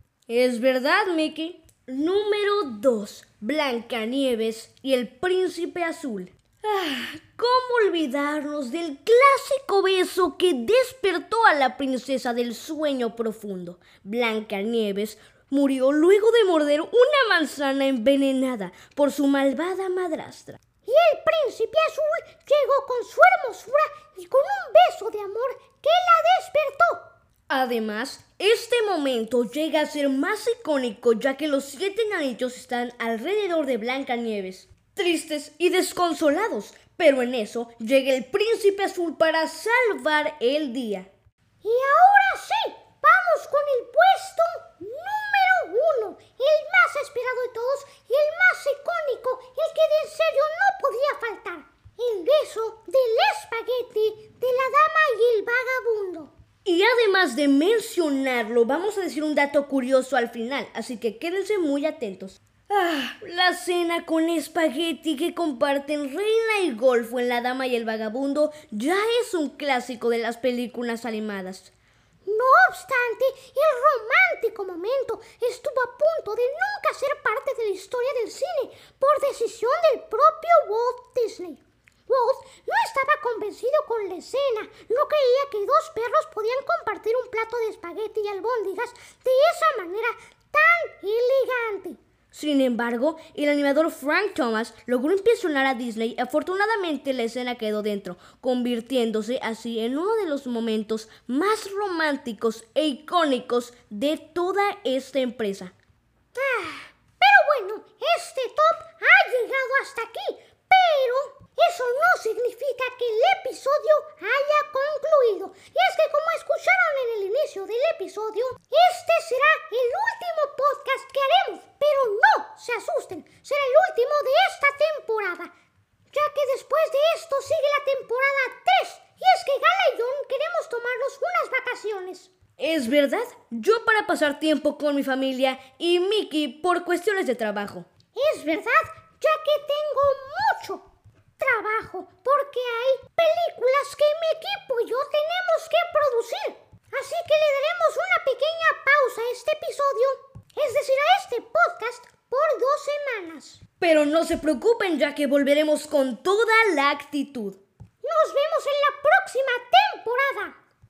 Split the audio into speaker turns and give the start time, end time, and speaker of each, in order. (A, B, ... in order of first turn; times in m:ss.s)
0:00.3-0:20.6 A
0:20.8-0:27.1 B
0:27.5-0:41.1 A
0:41.6-0:56.3 B
0:56.6-1:11.7 A
1:12.2-1:32.0 B
1:32.3-1:45.7 A
1:46.4-2:05.5 B
2:06.1-2:12.3 B
2:12.6-2:17.9 A
2:18.2-2:20.9 B
2:21.4-2:33.6 B
2:33.8-2:37.6 A
2:38.0-2:40.6 B